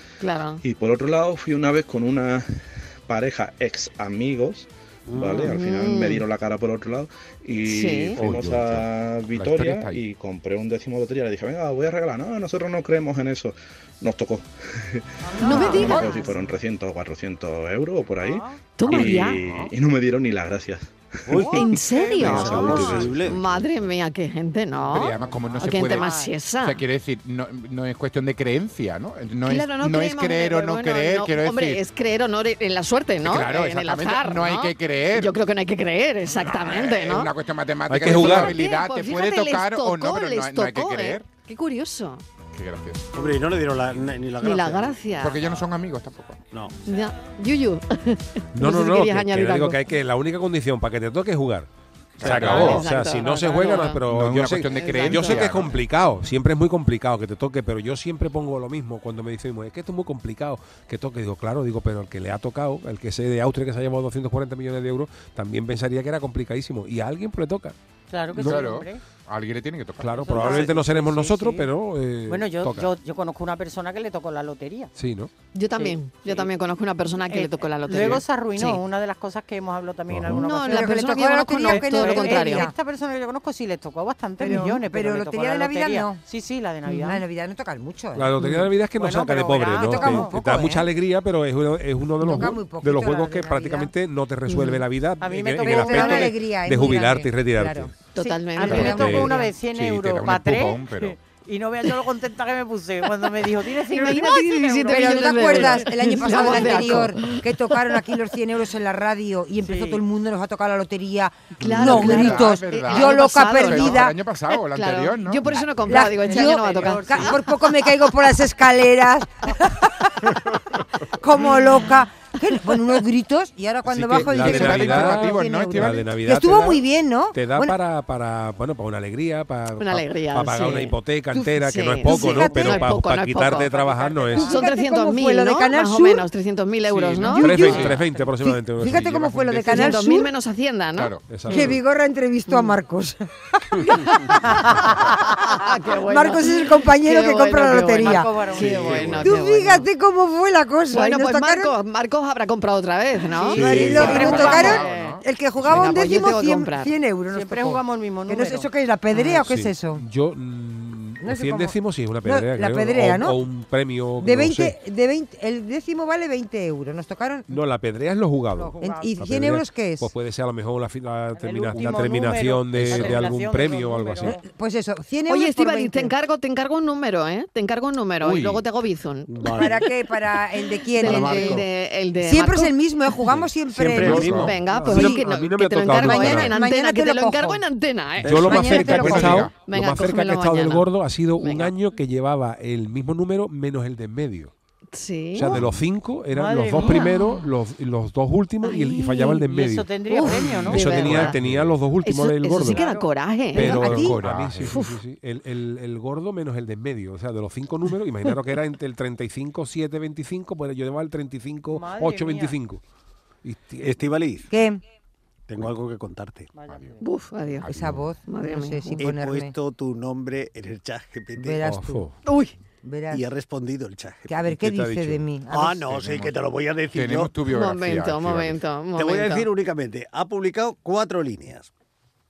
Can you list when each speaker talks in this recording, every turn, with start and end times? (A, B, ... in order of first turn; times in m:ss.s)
0:00.2-0:00.6 A
0:00.6-0:21.6 B
0:05.1-0:05.5 C
0:05.3-0:06.2 A
0:07.7-0:08.2 A
0:08.2-0:10.0 D
0:15.2-0:16.4 E
0:15.4-0:16.2 A
0:18.2-0:18.6 E
0:18.8-0:19.4 A
0:18.9-0:19.7 D
0:21.3-0:23.5 C
0:21.5-0:26.8 A
0:22.2-0:23.2 B
0:22.6-0:23.1 D
0:24.9-0:31.8 D
0:25.3-0:26.3 E
0:29.4-0:37.3 A
0:33.2-0:35.3 D
0:36.3-0:41.3 D
0:37.9-0:38.6 F
0:38.1-0:42.2 A
0:42.5-0:43.1 D
0:43.1-0:45.0 C
0:44.4-0:45.4 A
0:45.2-0:46.4 D
0:46.9-0:49.8 A
0:48.6-0:51.7 F
0:52.2-0:52.9 D
0:52.2-1:07.8 F
0:52.2-0:54.0 A
0:54.1-0:55.8 D
0:54.7-0:55.5 A
1:08.1-1:09.0 E
1:08.3-1:08.7 F
1:08.4-1:10.7 D
1:10.0-1:12.9 F
1:10.2-1:11.7 E
1:12.3-1:14.9 E
1:15.0-1:15.3 F
1:15.5-1:18.8 A
1:15.8-1:16.5 E
1:17.3-1:27.2 E
1:20.1-1:20.5 F
1:20.3-1:22.7 A
1:20.6-1:22.7 G
1:24.4-1:26.2 G
1:26.9-1:27.1 A
1:27.0-1:28.3 G
1:28.2-1:37.9 F
1:29.0-1:30.3 E
1:29.6-1:30.9 G
1:32.2-1:33.9 G
1:34.5-1:34.8 A
1:35.2-1:36.3 E
1:35.6-1:37.9 G
1:38.1-1:39.1 A
1:38.2-1:47.1 E
1:38.7-1:39.4 G
1:38.8-1:39.0 D
1:38.8-1:39.3 F
1:39.7-1:41.2 D
1:43.9-1:47.4 A
1:44.9-1:54.2 G
1:49.6-1:50.0 E
1:51.6-1:57.4 A
1:51.6-1:55.8 D
1:55.9-2:00.4 G
1:55.9-1:57.7 E
2:01.2-2:05.4 G
2:03.8-2:14.6 F
2:04.2-2:06.2 D
2:04.7-2:05.9 A
2:06.2-2:07.8 G
2:09.8-2:11.0 A
2:11.3-2:13.0 G
2:11.6-2:13.8 A
2:13.7-2:14.6 E
2:14.3-2:16.2 G
2:14.3-2:17.8 A
2:16.9-2:18.0 D
2:17.3-2:20.0 F
2:17.3-2:20.3 G
2:19.0-2:19.4 D
2:19.7-2:21.1 A
2:21.0-2:21.2 D
2:21.3-2:21.8 F
2:21.5-2:24.1 G
2:23.8-2:29.9 A
2:26.0-2:31.7 G
2:28.0-2:29.2 E
2:28.6-2:29.3 D
2:30.9-2:36.9 A
2:33.3-2:34.8 E
2:33.5-2:40.0 G
2:33.6-2:34.2 C
2:33.8-2:35.8 D
2:37.3-2:38.7 E
2:39.2-2:44.8 F
2:41.2-2:43.4 G
2:44.2-2:47.6 G
2:47.5-2:54.4 F
2:48.6-2:49.1 E
2:48.8-2:50.1 G
2:51.3-2:54.4 E
2:52.7-2:53.2 D
2:54.3-2:56.1 G
2:55.3-2:59.7 A
2:58.2-2:58.6 D
2:59.3-2:59.8 C
2:59.5-3:01.7 G
3:01.0-3:02.7 A
3:01.0-3:01.6 C
3:02.2-3:05.2 G
3:03.3-3:06.6 F
3:03.8-3:04.5 C
3:04.0-3:04.5 D
3:04.2-3:10.9 A
3:05.9-3:07.6 G
3:08.2-3:09.5 D
3:08.2-3:14.5 F
3:08.3-3:09.5 G
3:11.4-3:11.7 A
3:14.9-3:15.6 A
3:15.4-3:22.8 F
3:16.3-3:17.2 E
3:16.9-3:17.4 A
3:18.6-3:19.4 A
3:19.5-3:21.3 E
3:20.1-3:21.4 A
3:21.4-3:21.8 D
3:22.0-3:24.2 A
3:22.6-3:23.1 E
3:23.5-3:32.8 F
3:23.6-3:24.2 G
3:23.9-3:24.8 D
3:24.7-3:25.0 A
3:31.7-3:32.6 E
3:33.4-3:34.1 F
3:33.8-3:34.5 C
3:34.5-3:34.8 G
3:35.5-3:36.5 C
3:36.6-3:37.0 E
3:36.7-3:37.0 D
3:37.0-3:37.7 A
3:37.6-3:38.1 D
3:37.6-3:39.6 G
3:38.3-3:39.0 A
3:39.0-3:41.6 C
3:41.4-3:42.1 G
3:41.6-3:42.1 F
3:42.3-3:42.5 A
3:42.8-3:43.2 G
3:43.1-3:44.4 C
3:44.3-3:45.9 G
3:44.5-3:45.3 F
3:45.5-3:47.3 C
3:45.9-3:46.4 D
3:46.9-3:48.6 D
3:47.5-3:49.5 A
3:49.0-3:51.7 C